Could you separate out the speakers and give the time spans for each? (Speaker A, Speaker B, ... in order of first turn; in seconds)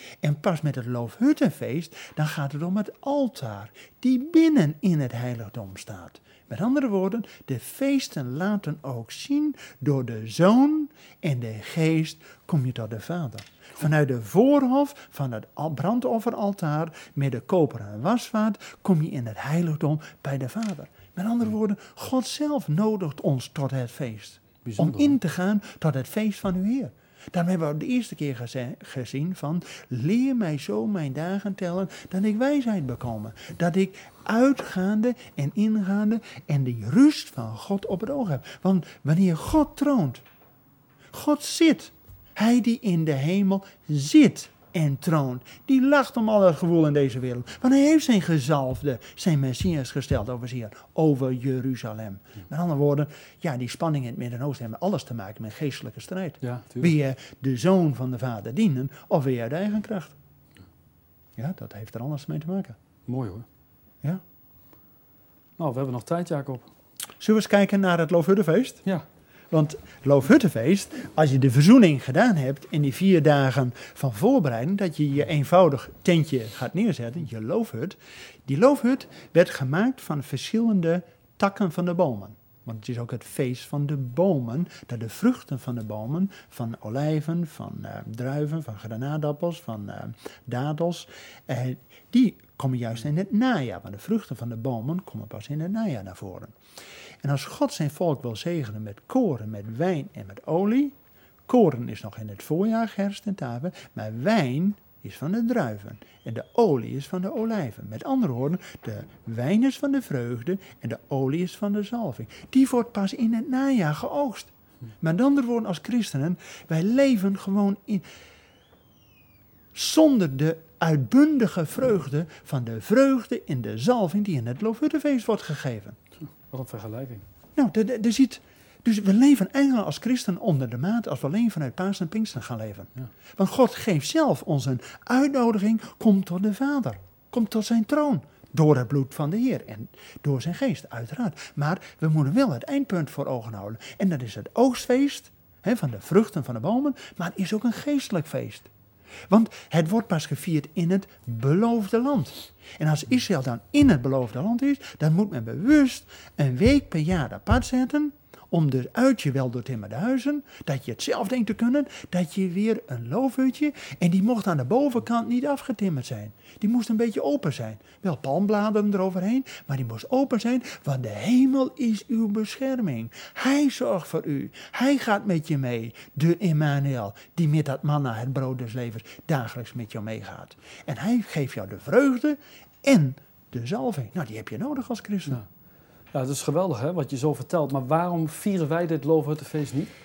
Speaker A: 0.2-40.2, 41.1-60.1, 61.4-62.8, 67.2-68.8, 69.5-96.5, 97.2-101.0, 101.5-118.0, 119.7-126.0, 127.5-148.7, 149.3-185.4
Speaker B: 24.6-25.1, 56.4-56.9, 63.1-63.5, 65.6-66.7, 126.5-127.2, 186.1-189.9